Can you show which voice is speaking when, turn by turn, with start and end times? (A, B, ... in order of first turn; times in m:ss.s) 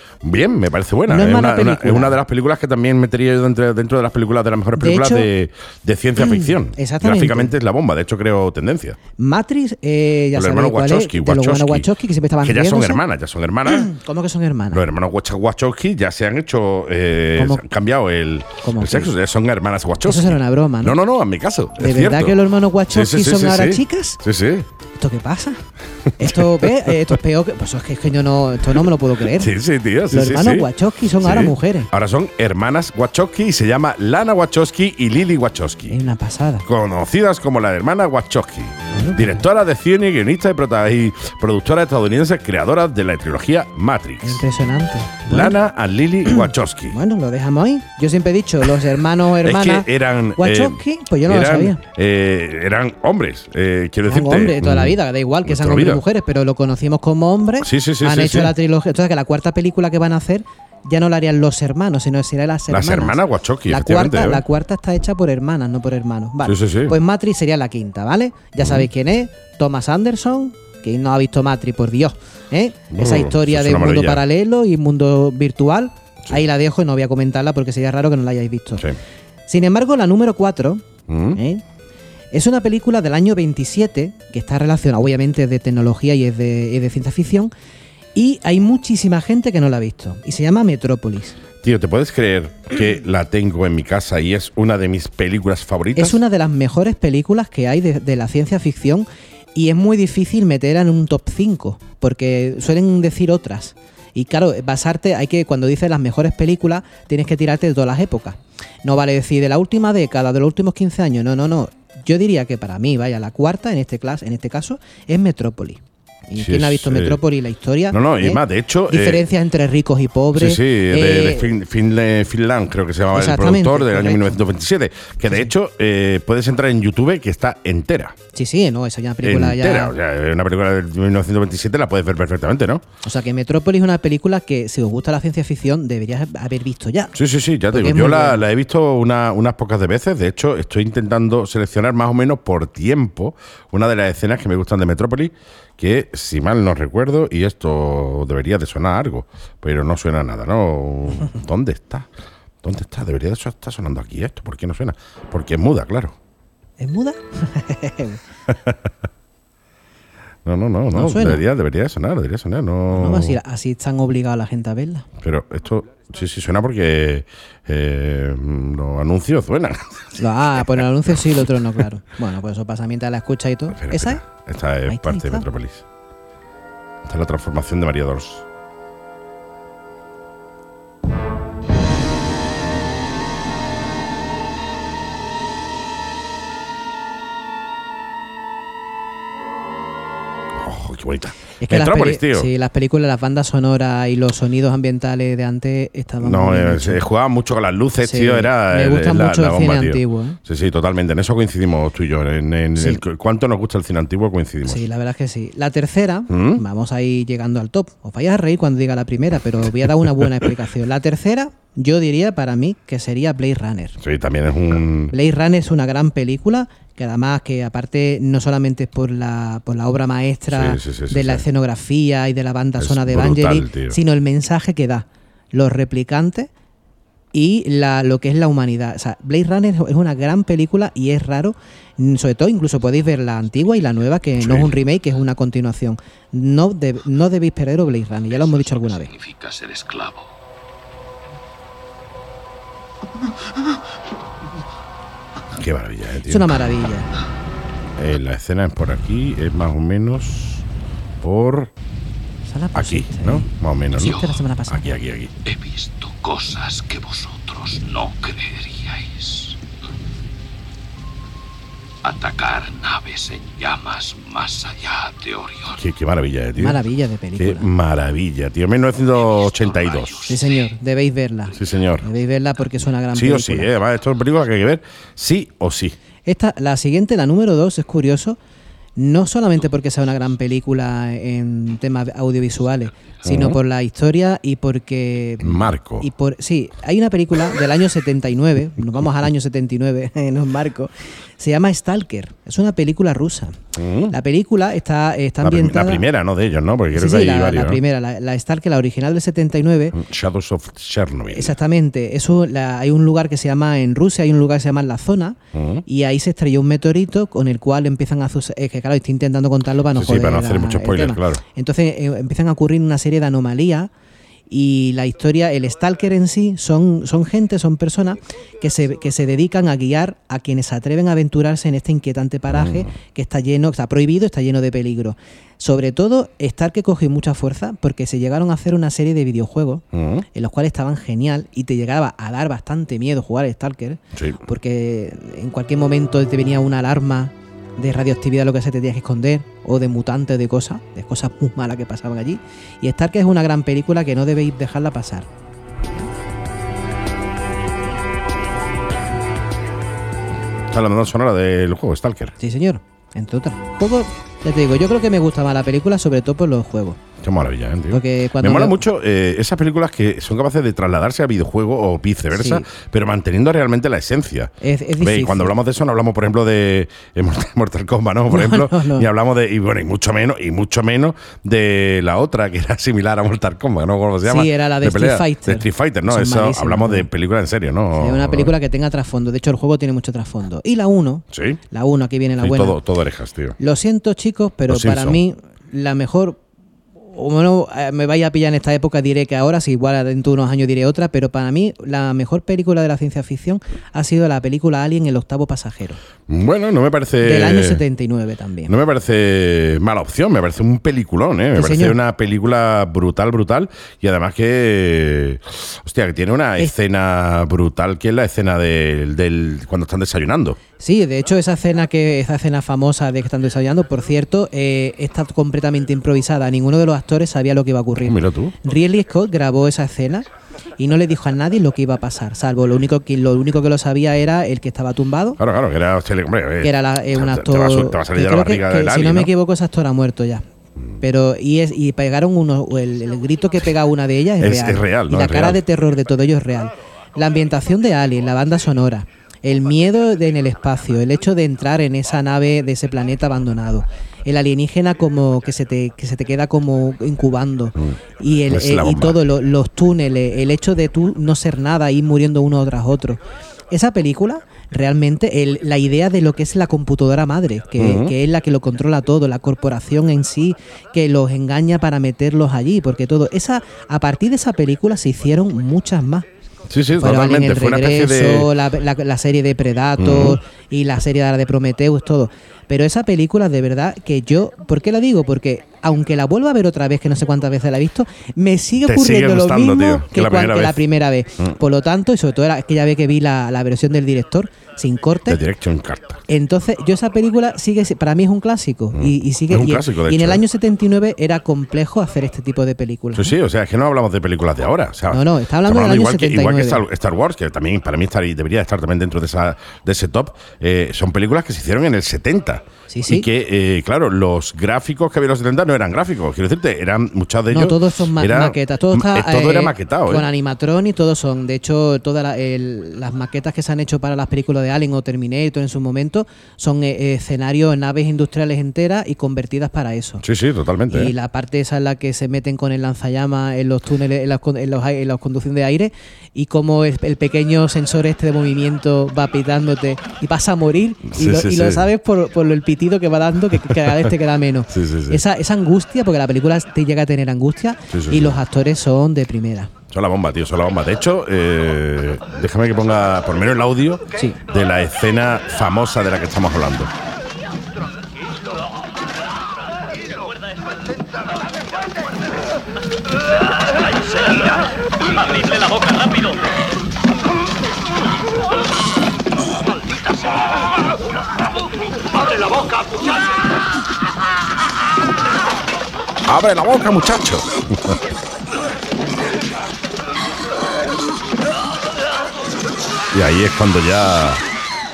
0:00.2-0:09.0 A
0:01.1-0:02.2 B
0:04.8-0:05.3 B
0:06.2-0:07.5 B
0:09.2-0:13.0 B
0:10.4-0:11.9 A
0:12.4-0:13.9 A
0:13.7-0:14.8 B
0:14.7-0:22.4 A
0:17.4-0:17.6 B
0:18.6-0:19.1 B
0:20.0-0:21.0 B
0:21.8-0:24.2 B
0:22.9-0:24.7 A
0:25.0-0:25.6 B
0:26.2-0:29.5 B
0:26.2-0:27.1 A
0:29.3-0:36.0 A
0:30.1-0:31.9 B
0:35.9-0:36.7 B
0:36.6-0:44.4 A
0:38.9-0:39.4 B
0:44.2-0:45.6 B
0:45.3-0:47.0 A
0:46.3-0:51.8 B
0:49.4-0:56.0 A
0:54.1-1:18.9 B
0:57.6-0:58.5 A
1:02.7-1:04.4 A
1:06.4-1:07.0 A
1:08.6-1:08.9 A
1:12.9-1:14.2 A
1:19.5-1:21.6 B
1:21.1-1:21.4 A
1:22.3-1:27.5 B
1:28.2-1:31.4 B
1:31.6-1:36.2 A
1:36.0-2:01.5 B
1:56.4-1:57.2 A
1:57.9-1:59.3 A
2:00.4-2:08.2 A
2:03.1-2:04.4 B
2:08.3-2:10.0 B
2:09.2-2:12.8 A
2:13.0-2:17.2 B
2:17.2-2:32.1 A
2:17.7-2:18.4 B
2:32.6-2:36.2 A
2:36.8-2:38.2 B
2:38.5-2:38.8 A
2:40.4-2:43.4 A
2:40.9-2:41.4 B
2:42.9-2:45.1 B
2:45.2-2:50.6 A
2:50.2-2:54.2 B
2:53.8-2:55.8 A
2:54.9-2:55.5 B
2:57.0-2:58.4 A
3:10.6-3:12.5 A
3:11.6-3:17.0 B
3:16.2-3:24.8 A
3:18.0-3:20.4 B
3:24.6-3:34.0 B
3:26.3-3:26.6 A
3:34.0-3:35.1 A
3:35.1-3:46.5 B
3:40.5-3:41.4 A
3:42.8-3:44.0 A
3:47.3-3:59.1 B
3:54.4-3:54.7 A
3:58.4-4:00.3 C
4:05.6-4:06.6 A
4:06.3-4:07.1 B
4:08.0-4:10.6 A
4:11.2-4:11.7 A
4:12.4-4:15.0 B
4:12.8-4:15.4 A
4:14.0-4:14.4 C
4:15.4-4:19.6 C
4:22.0-4:25.8 C
4:25.8-4:26.8 A
4:26.6-4:27.7 B
4:27.4-4:30.3 A
4:29.1-4:30.7 C
4:30.3-4:33.7 B
4:31.6-4:32.1 A
4:33.1-4:36.0 A
4:36.2-4:38.4 B
4:39.0-4:53.6 B
4:43.2-4:43.6 A
4:45.4-4:46.1 A
4:53.8-4:54.1 A
4:54.1-4:56.0 B
4:55.4-4:57.8 A
4:56.9-5:00.0 B
4:59.9-5:01.6 A
5:01.3-5:13.9 B
5:05.5-5:05.8 A
5:09.9-5:11.4 A
5:14.5-5:45.3 B
5:22.5-5:22.9 A
5:29.9-5:30.2 A
5:34.2-5:34.4 A
5:50.7-5:52.4 A
5:52.4-5:57.0 B
5:57.2-6:18.5 A
5:57.9-5:58.8 B
6:02.3-6:02.7 B
6:04.6-6:05.5 B
6:08.3-6:09.1 B
6:14.2-6:17.1 B
6:17.9-6:22.8 B
6:21.3-6:21.6 A
6:22.4-6:23.6 A
6:23.6-6:26.4 B
6:24.7-6:25.2 A
6:27.1-6:36.0 B
6:36.3-6:37.8 A
6:37.2-6:38.7 B
6:38.7-6:50.6 A
6:41.5-6:42.0 B
6:50.8-7:00.3 B
6:58.0-6:58.6 A
7:00.8-7:05.4 B
7:05.4-7:09.3 A
7:06.6-7:10.4 B
7:11.0-7:33.2 B
7:14.4-7:15.6 A
7:28.5-7:29.2 A
7:33.7-7:46.3 B
7:37.8-7:38.2 A
7:46.7-7:48.5 A
7:47.0-8:05.4 B
7:50.0-7:50.4 A
7:58.8-8:00.8 A
8:05.3-8:06.2 A
8:06.3-8:13.4 B
8:08.9-8:10.4 A
8:13.2-8:30.3 A
8:15.1-8:16.8 B
8:22.9-8:23.3 B
8:27.5-8:40.2 B
8:40.2-8:41.1 A
8:40.9-8:59.7 B
8:51.1-8:51.9 A
8:53.8-8:54.1 A
8:54.7-8:55.2 A
8:57.9-8:58.4 A
8:59.9-9:06.9 A
9:15.2-9:16.3 C
9:26.2-9:28.0 A
9:33.1-9:34.4 A